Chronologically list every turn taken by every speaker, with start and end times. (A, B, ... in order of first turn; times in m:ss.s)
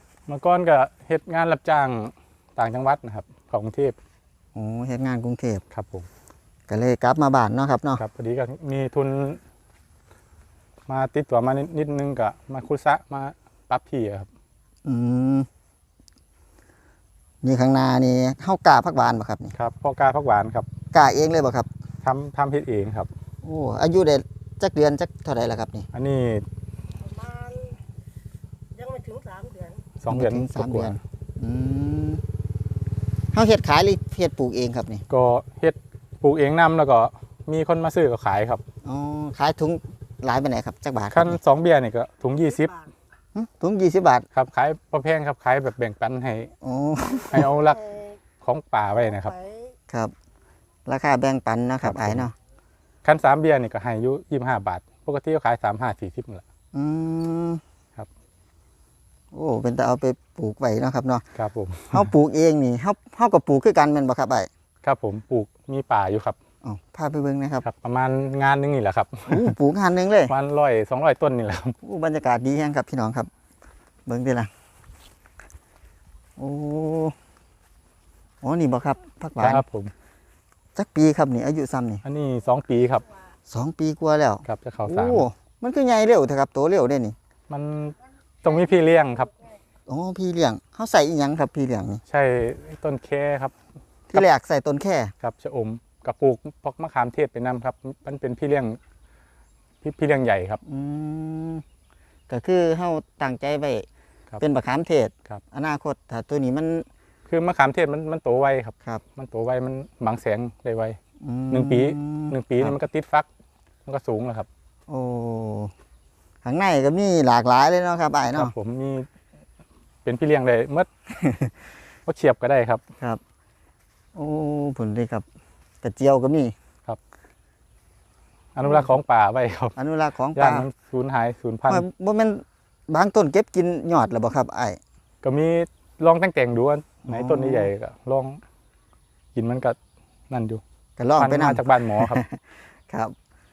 0:00.3-0:04.0 A
0:04.6-0:05.6 B
0:05.7-0:06.1 A
0:06.7-0:08.0 B
0:08.0-0:09.4 A
0:10.9-0:14.3 A
0:14.8-0:15.5 B
0:17.4-0:19.5 B
0:19.5-0:20.7 A
0:20.9-0:21.7 B
0:22.0-0:23.1 A
0:23.4-0:25.9 B
0:25.9-0:26.5 A
0:27.0-0:27.8 C
0:28.8-0:29.9 C
0:30.0-0:31.0 A
0:30.1-0:32.2 B
0:33.3-0:35.0 B
0:35.1-0:38.6 A
0:38.8-0:41.4 B
0:41.1-0:42.8 A
0:42.5-0:42.9 C
0:43.4-0:44.3 B
0:44.3-0:46.5 A
0:46.6-0:47.5 B
0:47.3-0:47.8 A
0:47.6-0:48.2 C
0:48.4-0:49.3 A
0:49.0-0:49.8 C
0:50.9-0:52.3 B
0:51.8-0:52.3 A
0:53.0-0:56.4 A
0:56.7-0:57.6 B
0:59.3-1:01.2 B
1:01.4-1:02.1 A
1:01.9-1:04.5 B
1:04.8-1:06.4 A
1:06.6-1:07.6 B
1:07.6-1:09.5 A
1:09.3-1:10.3 B
1:10.3-1:11.8 A
1:11.8-1:13.3 B
1:14.1-1:14.5 B
1:16.4-1:17.2 B
1:18.4-1:19.6 B
1:19.4-1:19.9 A
1:20.8-1:22.0 B
1:22.0-1:23.0 A
1:23.5-1:27.2 B
1:24.5-1:25.2 A
1:27.5-1:29.3 A
1:29.9-1:32.0 B
1:32.1-1:33.6 A
1:34.1-1:35.1 B
1:35.2-1:38.8 A
1:39.8-1:40.6 A
1:40.6-1:41.6 B
1:42.3-1:43.9 B
1:44.4-1:46.9 B
1:47.3-1:51.0 A
1:51.2-1:52.8 B
1:51.5-1:53.3 A
1:53.9-1:54.5 A
1:54.9-1:55.7 B
1:56.4-1:58.5 B
1:58.3-1:59.1 A
2:00.0-2:00.9 A
2:01.1-2:01.5 B
2:02.1-2:02.8 A
2:04.2-2:05.2 B
2:05.8-2:06.5 B
2:08.6-2:09.8 A
2:09.8-2:10.7 B
2:10.4-2:11.9 A
2:11.7-2:14.8 B
2:15.2-2:18.4 A
2:17.1-2:17.7 B
2:19.4-2:19.8 A
2:20.3-2:20.6 A
2:21.0-2:23.2 B
2:21.2-2:22.2 A